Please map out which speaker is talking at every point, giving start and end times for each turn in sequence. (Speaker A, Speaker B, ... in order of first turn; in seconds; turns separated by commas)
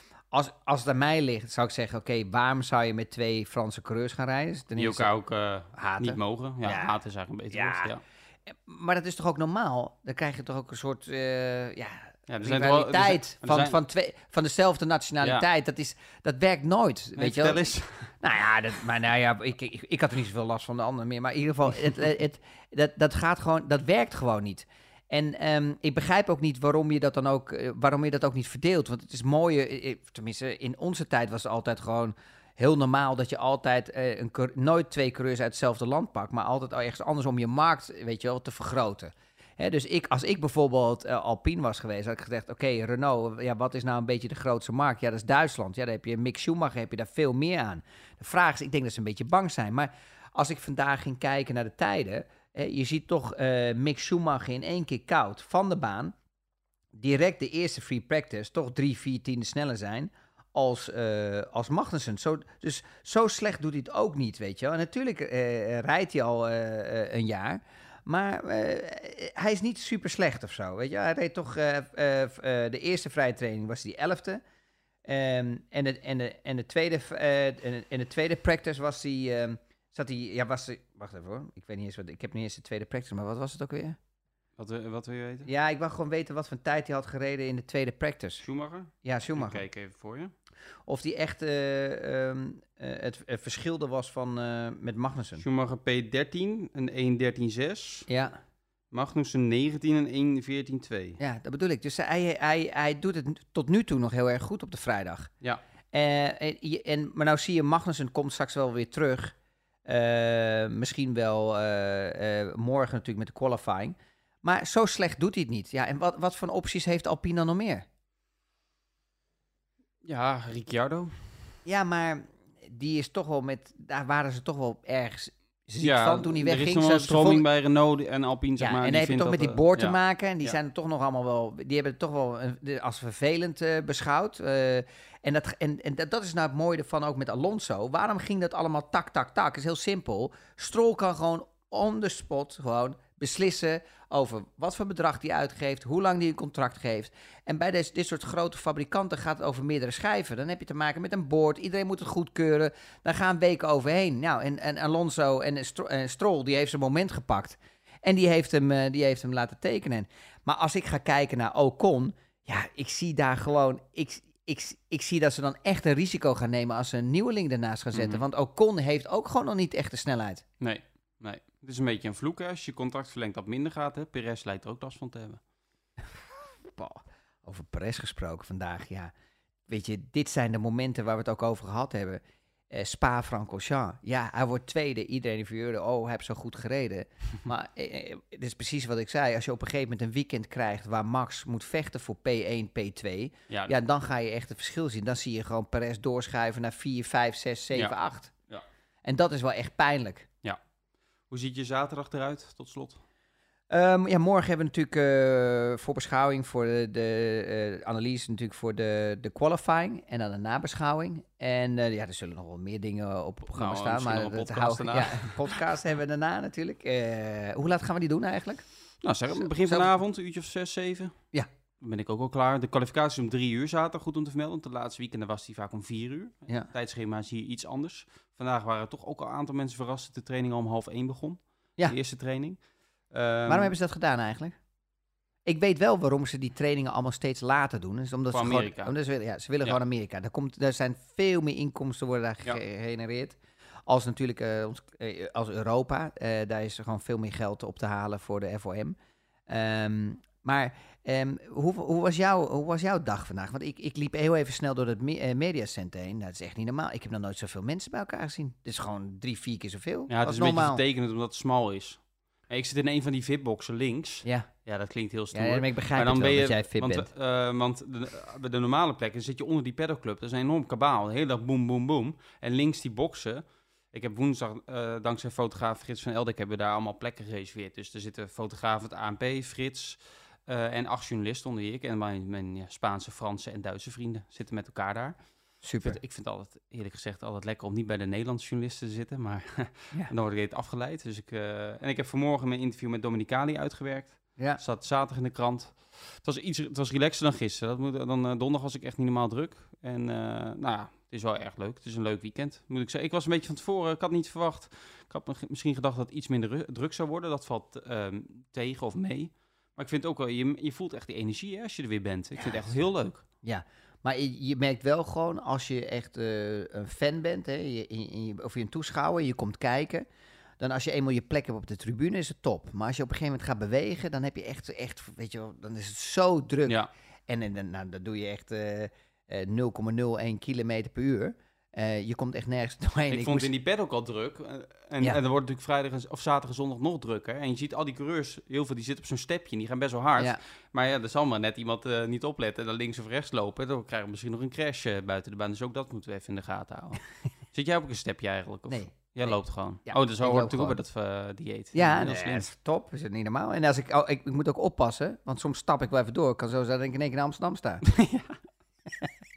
Speaker A: 0.3-5.1, Speaker B: 4.7-8.0, Speaker A: 5.7-7.0, Speaker A: 7.5-7.9, Speaker A: 8.4-56.1, Speaker B: 12.3-13.8, Speaker B: 17.2-18.1, Speaker A: 56.9-74.4, Speaker A: 75.0-84.0, Speaker B: 84.6-85.5, Speaker A: 85.5-88.4, Speaker B: 88.4-90.3, Speaker A: 89.0-89.6, Speaker A: 90.9-95.4, Speaker B: 95.4-98.1, Speaker A: 98.1-98.4, Speaker B: 98.9-101.2, Speaker A: 101.2-105.3, Speaker A: 105.9-109.3, Speaker A: 109.8-117.8, Speaker B: 120.0-121.5, Speaker A: 121.6-127.5, Speaker B: 125.8-130.6, Speaker A: 128.6-170.4, Speaker B: 167.9-168.2, Speaker B: 170.6-175.4, Speaker A: 176.6-179.1, Speaker A: 179.7-198.3, Speaker A: 199.0-200.3, Speaker B: 201.3-203.0, Speaker A: 203.7-218.6, Speaker B: 213.4-215.6, Speaker B: 219.0-221.1, Speaker A: 219.4-219.9, Speaker B: 221.8-233.7, Speaker A: 233.5-234.6, Speaker A: 235.4-249.0, Speaker B: 238.3-238.9, Speaker A: 249.5-260.8, Speaker B: 260.1-285.2, Speaker A: 264.2-264.5, Speaker A: 265.3-267.1, Speaker A: 285.6-286.0, Speaker B: 285.8-313.2, Speaker A: 312.4-312.7, Speaker A: 313.4-320.1, Speaker A: 320.6-333.5, Speaker B: 333.1-352.5, Speaker A: 348.7-350.8, Speaker A: 351.7-357.8, Speaker B: 357.9-358.4